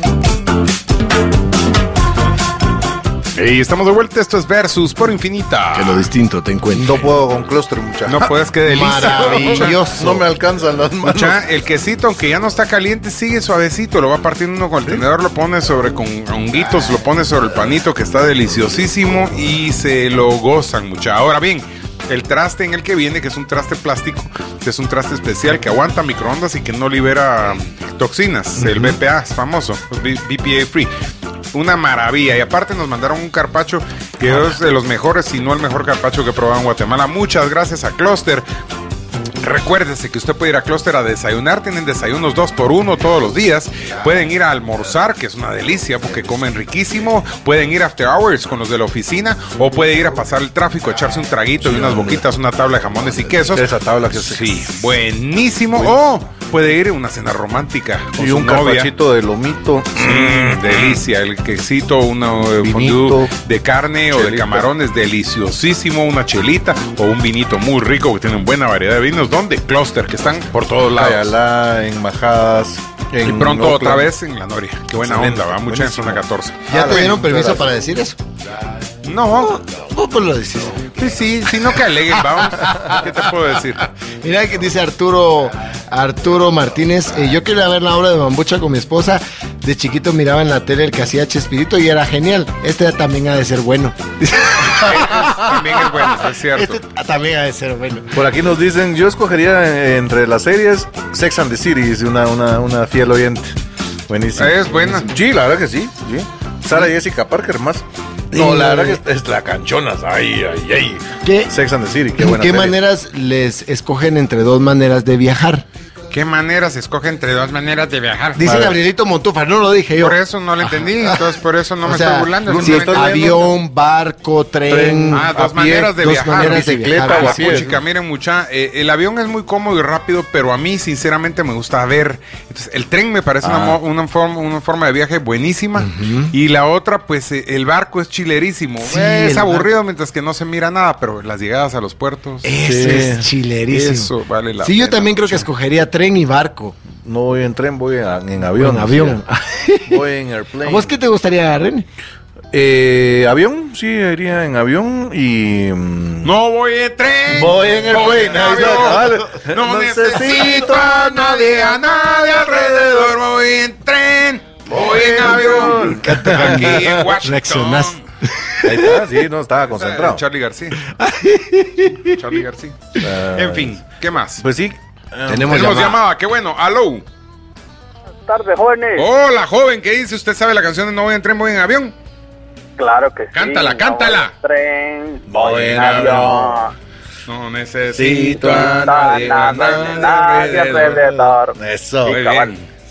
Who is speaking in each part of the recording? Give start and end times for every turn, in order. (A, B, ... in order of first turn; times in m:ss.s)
0:03.4-0:06.0 A
0:05.7-0:07.1 B
0:06.7-0:08.3 C
0:08.0-0:09.8 A
0:08.6-0:10.2 B
0:08.9-0:11.4 C
0:11.0-0:30.9 A
0:31.5-0:38.4 A
0:39.4-0:58.9 A
0:51.6-0:52.2 C
0:53.2-0:54.7 C
0:55.7-0:56.0 C
0:58.2-1:01.0 C
1:00.0-1:11.3 A
1:02.6-1:03.3 C
1:04.1-1:04.7 C
1:10.9-1:14.1 C
1:13.2-1:17.2 A
1:15.0-1:17.8 C
1:16.7-1:18.2 B
1:19.0-1:19.6 A
1:19.4-1:21.6 B
1:21.0-1:23.8 A
1:22.3-1:23.0 B
1:24.2-1:38.2 B
1:34.7-1:36.8 A
1:38.1-1:43.5 C
1:44.1-1:52.8 C
1:44.4-1:45.1 A
1:48.3-1:49.0 B
1:51.2-1:51.5 B
1:52.2-1:55.6 B
1:56.1-1:58.4 A
1:58.4-2:01.2 B
1:58.4-1:58.8 C
2:00.0-2:03.4 A
2:01.8-2:05.3 B
2:02.4-2:03.5 C
2:04.7-2:07.8 C
2:05.1-2:22.5 A
2:06.0-2:07.7 B
2:13.4-2:13.8 C
2:15.8-2:16.3 B
2:18.8-2:19.7 B
2:22.4-2:24.1 B
2:22.6-2:23.3 C
2:23.7-2:25.5 A
2:24.6-2:26.8 B
2:27.0-2:29.2 C
2:28.5-2:30.0 B
2:29.9-2:31.0 C
2:30.6-2:31.8 B
2:32.5-2:36.3 C
2:36.2-2:48.0 A
2:37.3-2:43.1 C
2:38.3-2:39.2 B
2:44.7-2:47.1 C
2:45.7-2:49.0 B
2:48.6-2:50.2 C
2:49.7-2:50.8 A
2:50.9-2:52.2 B
2:52.0-2:54.4 A
2:53.0-2:53.7 C
2:54.4-2:56.0 C
2:55.3-2:56.0 B
2:55.5-2:57.0 A
2:58.3-2:59.1 D
2:59.0-3:01.9 A
3:02.8-3:06.7 D
3:03.3-3:04.3 A
3:05.2-3:06.7 C
3:05.5-3:06.4 A
3:07.3-3:11.1 A
3:07.9-3:12.2 C
3:08.4-3:12.5 D
3:12.0-3:12.6 A